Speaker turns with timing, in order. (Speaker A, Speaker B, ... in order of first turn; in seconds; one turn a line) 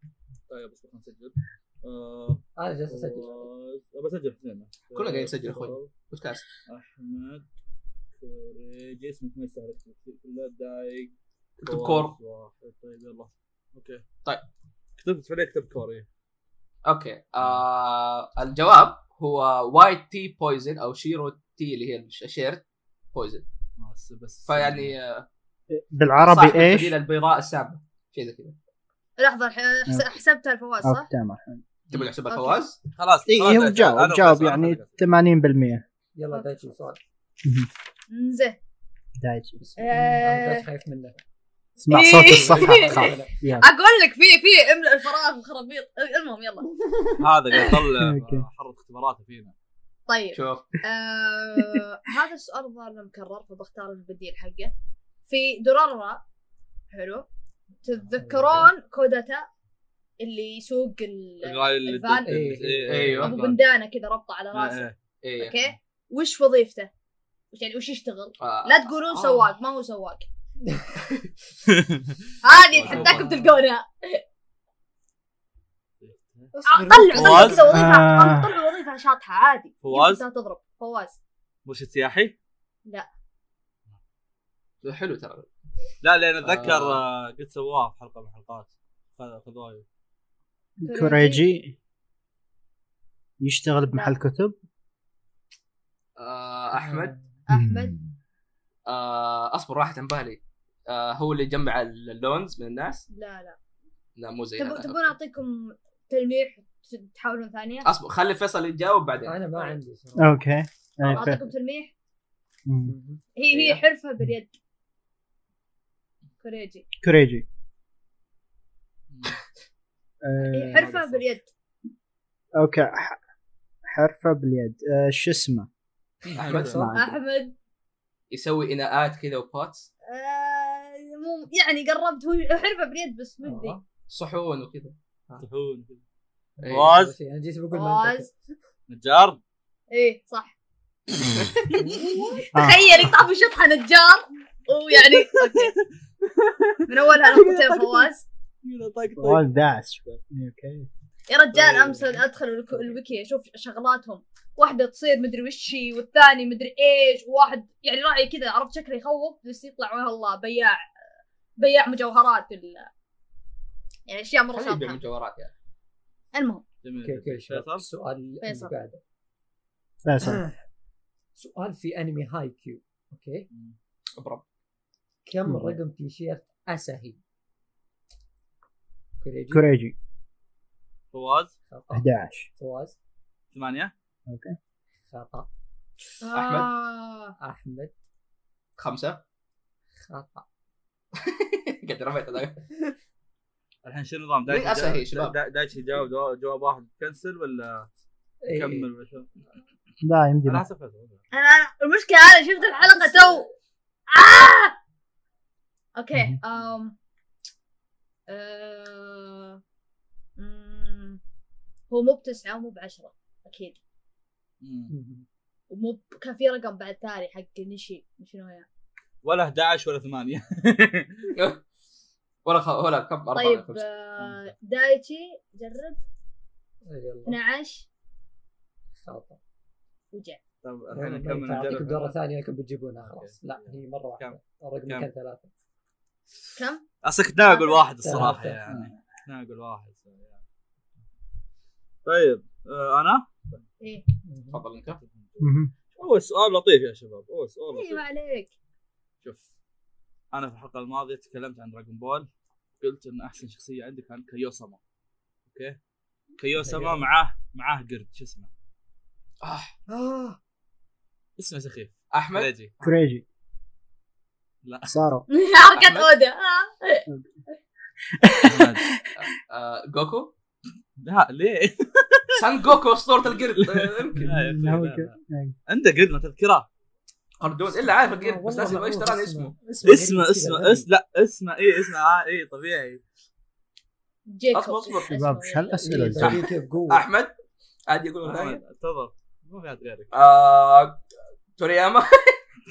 Speaker A: 0.5-5.9
Speaker B: 2.6-3.5
Speaker C: 5.0-6.4
Speaker A: 6.7-7.5
Speaker A: 8.2-11.1
Speaker C: 11.6-12.2
Speaker A: 11.7-14.0
Speaker A: 15.0-16.1
Speaker C: 16.9-23.4
Speaker A: 17.4-17.6
Speaker A: 23.8-25.0
Speaker C: 24.5-25.3
Speaker D: 25.7-27.0
Speaker C: 26.2-28.6
Speaker E: 29.2-31.1
Speaker D: 30.8-31.6
Speaker C: 31.9-32.8
Speaker E: 32.3-32.6
Speaker A: 33.0-35.0
Speaker D: 33.3-35.8
Speaker B: 36.2-37.0
Speaker E: 36.3-36.7
Speaker E: 38.1-38.6
Speaker D: 39.2-39.5
Speaker B: 39.6-41.2
Speaker E: 39.8-40.7
Speaker D: 41.8-43.7
Speaker E: 41.9-46.7
Speaker B: 42.2-43.3
Speaker A: 47.2-49.5
Speaker D: 47.7-48.4
Speaker E: 50.1-54.7
Speaker C: 50.3-50.7
Speaker E: 55.3-56.2
Speaker E: 56.9-57.3
Speaker E: 57.8-59.5
Speaker B: 58.2-58.7
Speaker E: 60.2-62.4
Speaker A: 61.4-63.6
Speaker B: 62.2-63.3
Speaker C: 62.9-63.4
Speaker E: 63.2-64.8
Speaker A: 64.5-65.0
Speaker C: 65.2-65.6
Speaker E: 65.4-66.9
Speaker E: 67.5-70.3
Speaker C: 68.4-69.5
Speaker B: 70.7-70.9
Speaker A: 71.7-72.2
Speaker E: 72.4-74.2
Speaker A: 72.7-73.4
Speaker B: 72.9-73.5
Speaker A: 76.0-76.5
Speaker E: 76.6-81.2
Speaker B: 76.6-77.6
Speaker A: 77.1-77.7
Speaker D: 77.7-78.5
Speaker A: 79.8-80.2
Speaker A: 81.7-82.3
Speaker C: 84.8-85.5
Speaker A: 86.0-89.8
Speaker C: 86.4-87.0
Speaker D: 90.8-91.8
Speaker E: 90.8-91.5
Speaker D: 93.4-94.6
Speaker C: 96.2-97.2
Speaker B: 96.7-97.2
Speaker E: 97.5-98.0
Speaker D: 97.5-98.1
Speaker C: 98.9-103.1
Speaker E: 103.1-103.6
Speaker C: 104.2-105.1
Speaker E: 104.6-107.9
Speaker C: 107.8-109.5
Speaker B: 109.2-110.4
Speaker D: 110.2-111.5
Speaker E: 111.1-111.9
Speaker D: 112.7-112.9
Speaker B: 112.9-113.2
Speaker E: 113.4-114.5
Speaker C: 113.5-113.8
Speaker E: 116.4-116.9
Speaker D: 117.0-117.5
Speaker A: 119.1-119.4
Speaker D: 120.2-120.9
Speaker E: 120.5-121.5
Speaker A: 120.7-121.3
Speaker D: 122.6-123.2
Speaker D: 123.9-125.7
Speaker A: 126.2-126.8
Speaker C: 126.4-126.9
Speaker B: 126.4-127.0
Speaker D: 126.7-127.2
Speaker E: 126.9-127.5
Speaker C: 128.3-129.9
Speaker E: 130.1-133.8
Speaker B: 133.4-133.8
Speaker C: 134.1-134.9
Speaker A: 135.4-136.0
Speaker B: 136.6-138.3
Speaker C: 136.6-136.9
Speaker A: 136.7-137.1
Speaker E: 137.7-138.3
Speaker A: 138.9-139.4
Speaker E: 139.9-140.5
Speaker D: 141.2-141.5
Speaker C: 141.4-141.7
Speaker B: 141.7-142.4
Speaker E: 142.4-145.7
Speaker D: 142.5-142.8
Speaker A: 145.0-148.1
Speaker E: 146.9-148.2
Speaker A: 148.6-150.2
Speaker D: 149.2-150.9
Speaker E: 151.3-160.8
Speaker A: 151.5-152.2
Speaker E: 161.6-162.9
Speaker E: 164.1-165.0
Speaker C: 164.5-165.5
Speaker E: 166.3-166.6
Speaker A: 166.8-167.9
Speaker B: 167.0-169.0
Speaker E: 168.4-168.7
Speaker D: 170.0-170.4
Speaker B: 170.2-170.5
Speaker B: 171.4-173.5
Speaker C: 174.2-174.4
Speaker B: 175.3-177.2
Speaker D: 175.4-175.8
Speaker B: 179.2-179.7
Speaker D: 179.5-179.9
Speaker A: 181.1-181.5
Speaker B: 181.7-183.0
Speaker D: 181.9-182.5
Speaker A: 183.5-183.9
Speaker D: 184.3-184.6
Speaker B: 185.1-185.5
Speaker E: 186.2-187.4
Speaker C: 186.3-186.7
Speaker B: 187.4-187.9
Speaker C: 188.8-189.2
Speaker B: 190.0-190.4
Speaker C: 191.2-192.6
Speaker A: 193.8-197.9
Speaker C: 194.5-195.3
Speaker B: 198.4-198.9
Speaker A: 198.5-199.3
Speaker D: 200.0-200.7
Speaker A: 200.4-201.2
Speaker E: 201.3-203.5
Speaker E: 204.1-204.8
Speaker E: 206.0-206.9
Speaker E: 208.3-209.6
Speaker E: 210.4-211.2
Speaker E: 211.9-213.8
Speaker A: 214.6-214.9
Speaker B: 214.9-215.3
Speaker E: 215.7-218.7
Speaker A: 219.2-221.3
Speaker C: 221.3-221.6
Speaker C: 222.4-223.8
Speaker E: 223.3-226.0
Speaker A: 224.2-224.5
Speaker B: 226.9-227.4
Speaker E: 227.3-227.9
Speaker B: 229.0-229.4
Speaker E: 230.1-230.4
Speaker A: 230.6-232.2
Speaker B: 230.9-235.5
Speaker A: 233.0-234.4
Speaker E: 236.6-236.8
Speaker A: 237.0-240.4
Speaker E: 237.5-237.9
Speaker B: 238.0-238.6
Speaker A: 242.1-243.6
Speaker E: 243.8-244.1
Speaker B: 244.3-244.6
Speaker C: 244.5-245.0
Speaker A: 245.0-248.0
Speaker D: 245.4-245.7
Speaker E: 247.7-248.5
Speaker A: 250.3-252.3
Speaker A: 252.8-254.8
Speaker A: 255.5-255.8
Speaker A: 256.4-258.5
Speaker B: 256.6-257.1
Speaker C: 259.4-259.7
Speaker B: 259.9-260.4
Speaker A: 261.4-262.8
Speaker C: 262.1-262.5
Speaker D: 262.8-263.2
Speaker A: 264.6-264.9
Speaker D: 264.9-265.2
Speaker E: 265.3-267.1
Speaker C: 265.8-266.1
Speaker D: 268.2-269.0
Speaker A: 268.4-268.8
Speaker C: 269.2-270.3
Speaker A: 271.0-272.5
Speaker C: 272.4-274.3
Speaker A: 273.5-275.1
Speaker B: 274.2-274.8
Speaker D: 274.2-275.6
Speaker A: 275.7-276.7
Speaker C: 277.4-279.5
Speaker B: 278.1-280.9
Speaker A: 279.8-283.0
Speaker E: 284.3-286.2
Speaker C: 284.5-285.1
Speaker D: 285.1-286.4
Speaker B: 285.7-287.1
Speaker C: 286.2-287.3
Speaker C: 287.9-288.6
Speaker A: 288.2-290.1
Speaker C: 290.1-291.0
Speaker C: 291.6-292.4